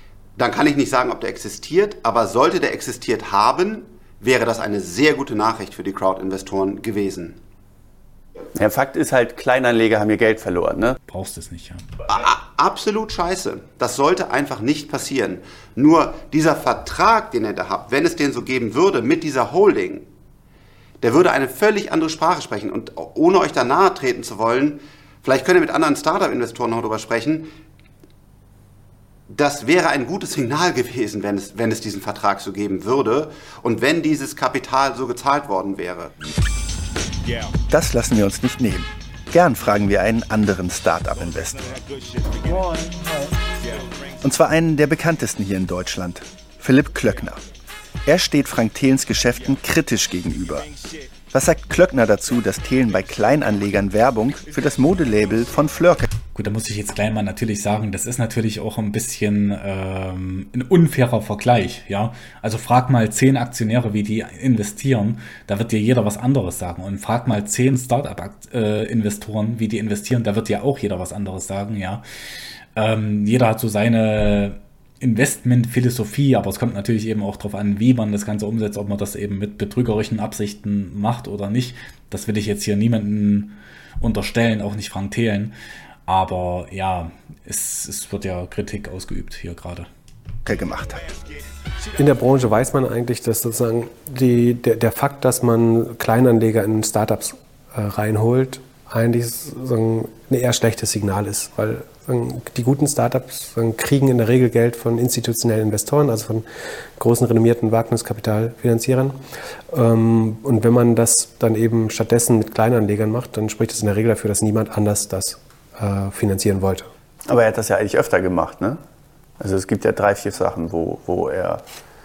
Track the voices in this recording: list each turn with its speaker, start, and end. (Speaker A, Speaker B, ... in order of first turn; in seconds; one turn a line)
Speaker A: 0.4-7.4
Speaker B: 8.6-11.0
Speaker C: 11.1-11.8
Speaker A: 12.1-20.0
Speaker A: 21.0-27.5
Speaker A: 29.3-36.1
Speaker D: 37.7-41.8
Speaker D: 44.2-47.4
Speaker D: 48.0-50.7
Speaker D: 51.3-56.1
Speaker C: 56.3-72.0
Speaker C: 72.8-85.5
Speaker C: 86.1-89.9
Speaker D: 90.4-91.1
Speaker E: 91.9-106.5
Speaker E: 107.0-109.2
Speaker E: 109.7-116.9
Speaker B: 117.3-118.8
Speaker B: 119.4-121.6